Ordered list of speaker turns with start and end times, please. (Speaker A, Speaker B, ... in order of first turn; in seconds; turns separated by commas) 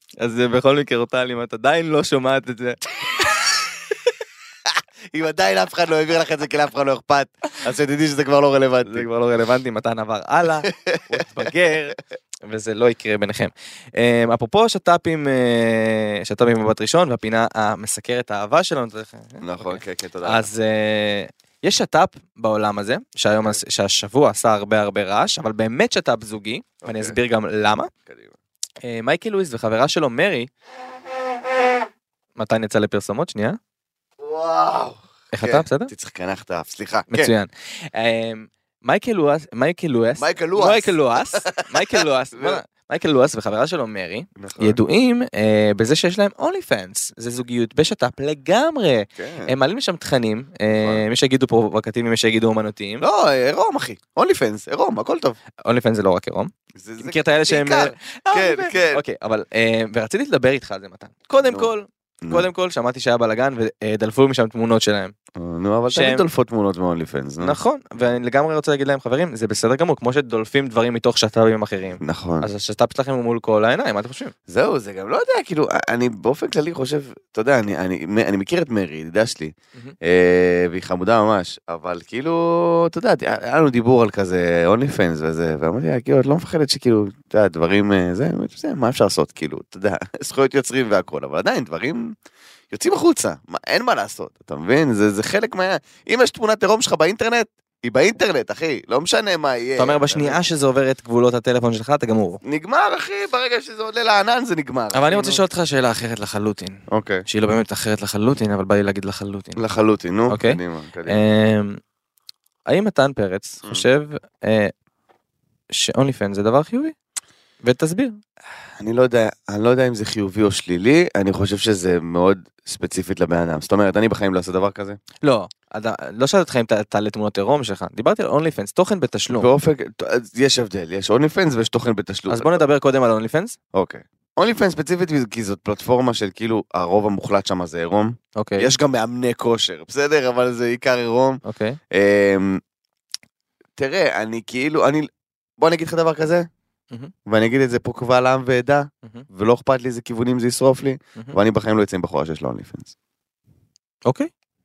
Speaker A: 0.2-3.5, Speaker B: 4.7-9.1, Speaker A: 8.8-27.9, Speaker B: 10.7-11.5, Speaker B: 19.4-20.5, Speaker B: 26.8-27.2, Speaker B: 28.1-28.3, Speaker A: 28.8-30.5, Speaker A: 32.4-33.6, Speaker B: 34.2-37.3, Speaker A: 35.3-35.9, Speaker A: 37.1-53.0, Speaker B: 40.2-42.6, Speaker B: 44.4-44.8, Speaker B: 49.1-49.5, Speaker B: 50.7-51.0, Speaker B: 53.0-55.4, Speaker A: 55.6-65.1, Speaker B: 56.7-59.0, Speaker B: 61.4-61.7, Speaker B: 62.2-62.5, Speaker B: 65.3-67.5, Speaker A: 65.9-66.2, Speaker A: 67.4-74.3, Speaker B: 72.0-72.5, Speaker B: 74.5-92.1, Speaker B: 92.7-100.4, Speaker A: 99.8-102.4, Speaker B: 102.4-105.4, Speaker A: 104.9-109.6, Speaker B: 106.9-107.2, Speaker B: 109.5-111.2, Speaker A: 110.3-111.8, Speaker A: 112.7-114.7, Speaker A: 115.7-116.9, Speaker A: 117.6-118.2, Speaker B: 118.8-125.0, Speaker A: 125.2-129.5, Speaker B: 129.3-132.6, Speaker A: 132.3-133.6, Speaker B: 133.7-142.6, Speaker A: 138.3-138.7, Speaker A: 141.4-141.8, Speaker B: 143.8-146.5, Speaker B: 147.2-152.9